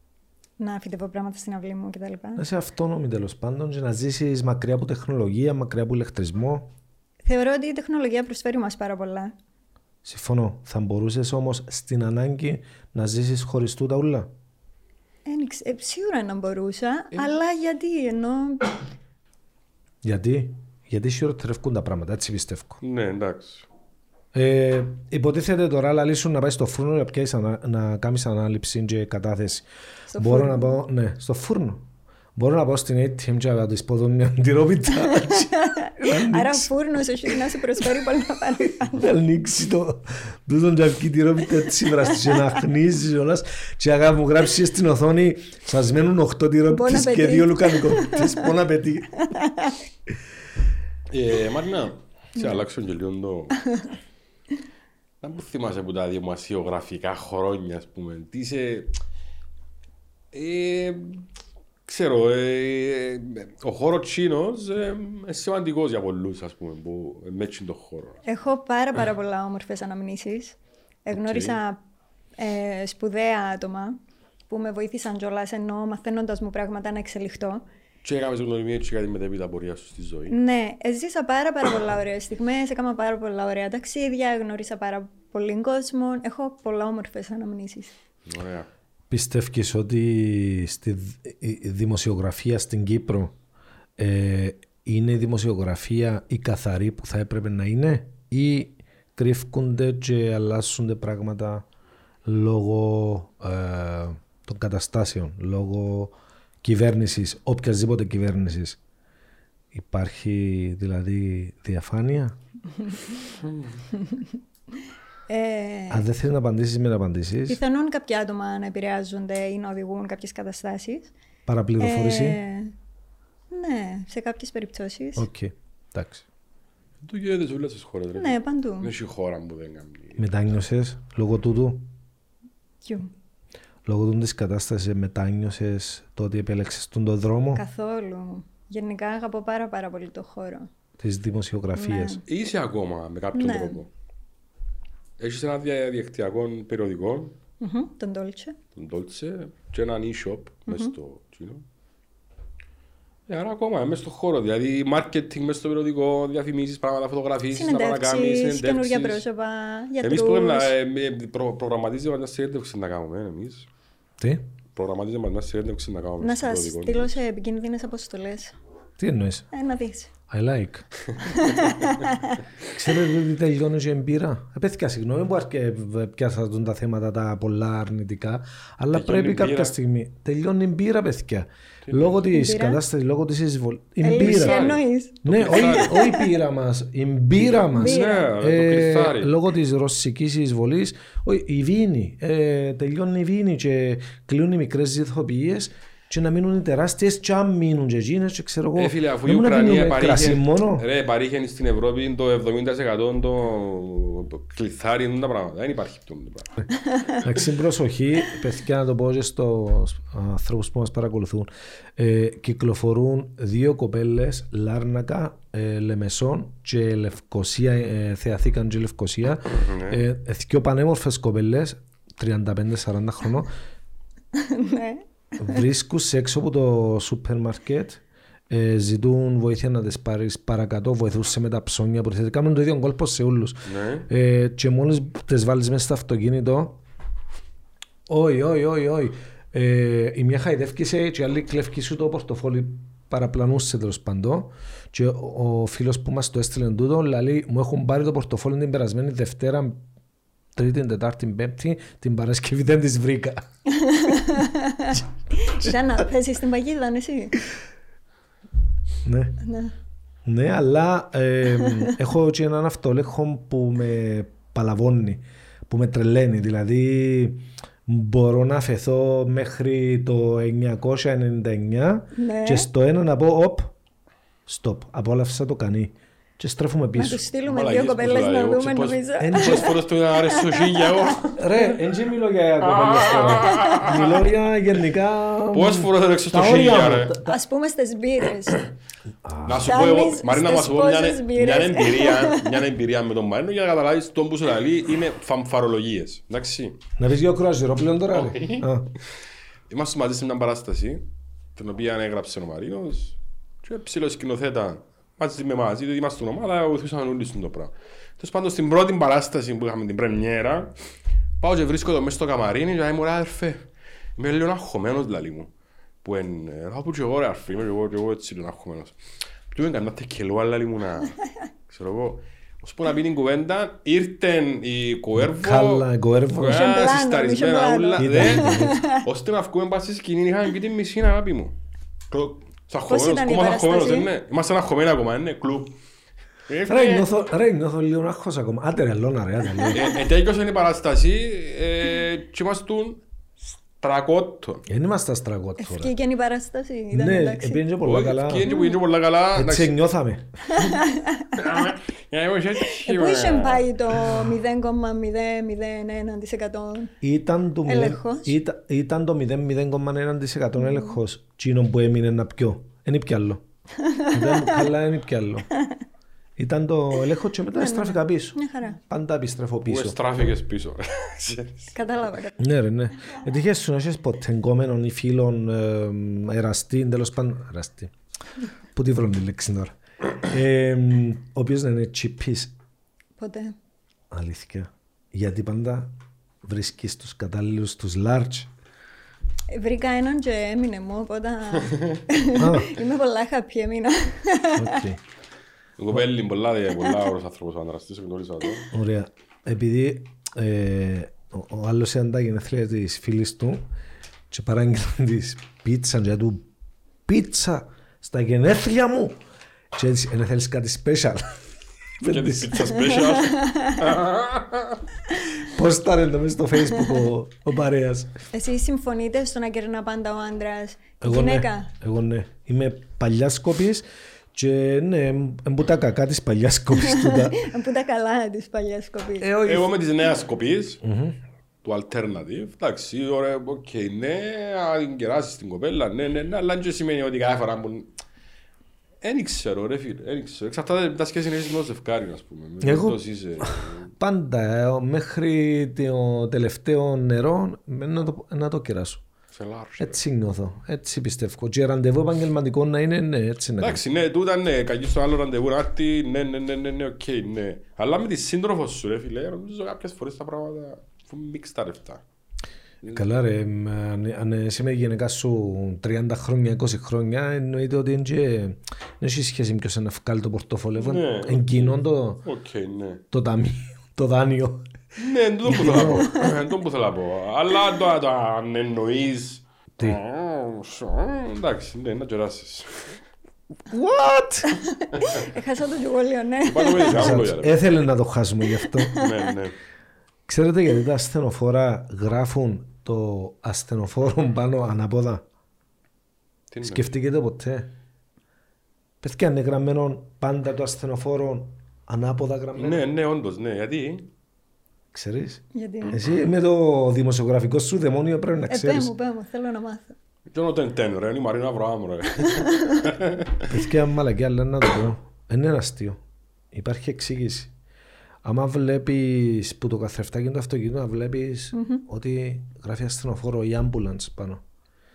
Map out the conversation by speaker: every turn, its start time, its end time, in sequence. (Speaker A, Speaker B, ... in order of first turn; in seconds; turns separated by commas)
Speaker A: 0.6-2.4, Speaker B: 2.4-6.7, Speaker A: 7.2-9.3, Speaker B: 10.0-14.3, Speaker A: 15.2-18.8, Speaker B: 20.0-22.8, Speaker C: 22.8-23.6, Speaker B: 24.3-29.6, Speaker A: 30.1-30.8, Speaker B: 30.2-36.7, Speaker A: 34.9-39.1, Speaker B: 38.8-49.1, Speaker A: 42.1-42.4, Speaker A: 46.7-48.5, Speaker A: 49.2-49.8, Speaker C: 51.1-53.6, Speaker A: 52.4-52.6, Speaker A: 53.6-53.9, Speaker C: 55.2-58.9, Speaker C: 60.3-61.2, Speaker C: 61.9-68.2, Speaker A: 68.2-71.8, Speaker C: 71.1-71.6, Speaker A: 72.4-74.0, Speaker A: 74.5-77.6, Speaker C: 78.0-80.4, Speaker A: 80.3-87.9, Speaker C: 88.3-88.7, Speaker B: 89.1-93.3, Speaker B: 94.0-101.7, Speaker B: 102.2-108.8, Speaker B: 109.7-112.4, Speaker C: 113.4-113.7, Speaker A: 113.9-114.2, Speaker A: 115.3-116.0, Speaker B: 115.9-117.6, Speaker A: 117.5-121.1, Speaker B: 121.5-122.4, Speaker A: 121.8-122.7, Speaker A: 123.5-125.3, Speaker B: 125.2-126.2, Speaker C: 127.0-130.3, Speaker A: 128.2-128.9, Speaker B: 130.2-131.9, Speaker A: 132.8-133.1, Speaker B: 133.8-137.6, Speaker A: 137.5-140.7, Speaker B: 141.0-142.2, Speaker A: 141.8-142.2, Speaker C: 142.3-143.9, Speaker A: 143.3-143.8, Speaker C: 145.2-147.3, Speaker A: 147.6-148.6, Speaker C: 148.8-151.6, Speaker A: 150.7-150.9, Speaker C: 153.3-159.2, Speaker A: 157.5-160.7, Speaker C: 160.0-163.7, Speaker B: 164.2-164.4, Speaker C: 164.7-167.2, Speaker A: 166.2-168.5, Speaker B: 169.0-169.5, Speaker A: 169.5-170.1, Speaker B: 170.3-170.8, Speaker A: 171.2-172.4, Speaker B: 172.7-184.7, Speaker C: 178.9-179.7, Speaker C: 181.8-182.2, Speaker A: 182.3-182.8, Speaker A: 184.0-186.3, Speaker C: 184.1-186.0, Speaker B: 185.2-200.8, Speaker C: 187.6-189.3, Speaker A: 187.7-188.3, Speaker C: 198.8-206.6, Speaker B: 207.2-223.5, Speaker C: 219.5-220.0, Speaker A: 224.3-225.6, Speaker B: 225.4-236.8, Speaker C: 233.7-234.1, Speaker B: 238.1-249.8, Speaker B: 250.6-253.4, Speaker A: 253.7-257.4, Speaker B: 259.0-259.4, Speaker A: 259.4-259.7, Speaker B: 260.2-273.7, Speaker A: 261.6-261.9, Speaker A: 272.1-272.7, Speaker B: 274.5-277.2, Speaker A: 276.9-281.2, Speaker C: 277.4-281.4, Speaker B: 279.2-279.8, Speaker B: 281.4-287.4, Speaker C: 282.6-284.3, Speaker A: 283.4-283.9, Speaker C: 285.5-287.2, Speaker A: 287.2-288.6, Speaker B: 289.2-289.8, Speaker C: 289.4-296.8, Speaker A: 289.6-292.6, Speaker B: 297.0-298.9, Speaker C: 298.1-298.7, Speaker C: 299.7-301.0, Speaker C: 301.6-310.7, Speaker C: 311.4-315.5, Speaker C: 316.0-319.0, Speaker C: 319.5-321.2, Speaker C: 321.7-331.5, Speaker B: 325.1-326.6, Speaker A: 326.4-329.0, Speaker B: 328.0-328.8, Speaker C: 332.1-335.8, Speaker A: 332.9-334.1, Speaker C: 336.5-337.1, Speaker B: 336.6-339.9, Speaker C: 339.7-343.0, Speaker C: 343.8-344.6, Speaker B: 344.7-345.9, Speaker A: 345.6-347.6, Speaker B: 346.9-348.5, Speaker C: 347.8-349.7, Speaker A: 348.4-348.8, Speaker B: 349.3-350.3, Speaker A: 350.5-351.7, Speaker C: 351.3-354.2, Speaker A: 352.7-356.9, Speaker B: 357.0-363.4, Speaker A: 357.6-358.4, Speaker A: 360.7-360.9, Speaker A: 363.8-364.7, Speaker B: 364.1-365.5, Speaker B: 366.4-370.0, Speaker A: 367.5-368.8, Speaker C: 369.7-371.8, Speaker A: 371.7-372.4, Speaker B: 372.4-377.9, Speaker B: 378.7-382.5, Speaker A: 383.2-383.6, Speaker B: 384.1-385.9, Speaker B: 386.4-388.5, Speaker A: 389.5-394.8, Speaker C: 391.6-392.0, Speaker B: 392.4-392.8, Speaker B: 394.6-395.0, Speaker C: 395.8-398.7, Speaker B: 398.7-403.6, Speaker B: 404.3-406.4, Speaker B: 407.1-409.2, Speaker B: 409.7-411.4, Speaker B: 412.0-412.8, Speaker C: 412.0-414.8, Speaker A: 412.7-413.9, Speaker B: 415.4-418.1, Speaker A: 418.3-421.7, Speaker B: 421.0-427.4, Speaker A: 426.7-429.3, Speaker B: 429.2-429.7, Speaker C: 429.4-430.8, Speaker B: 430.8-431.2, Speaker C: 431.6-437.9, Speaker C: 439.0-443.9, Speaker B: 442.6-449.0, Speaker C: 449.3-450.0, Speaker B: 449.8-453.8, Speaker C: 453.6-462.0, Speaker B: 462.9-472.2, Speaker C: 470.8-473.0, Speaker B: 473.1-474.7, Speaker C: 475.0-483.0, Speaker B: 475.4-476.2, Speaker B: 483.7-484.5, Speaker A: 484.5-487.2, Speaker C: 486.4-487.6, Speaker B: 486.9-489.0, Speaker A: 488.6-489.1, Speaker C: 488.9-489.6, Speaker B: 490.3-495.2, Speaker C: 496.5-496.9, Speaker B: 496.6-497.7, Speaker B: 499.0-502.8, Speaker C: 502.5-504.1, Speaker B: 504.9-508.9, Speaker A: 505.5-506.0, Speaker A: 508.5-509.9, Speaker C: 510.3-513.5, Speaker A: 512.2-512.8, Speaker B: 513.5-516.0, Speaker B: 516.5-517.5, Speaker B: 518.2-524.4, Speaker A: 521.5-521.8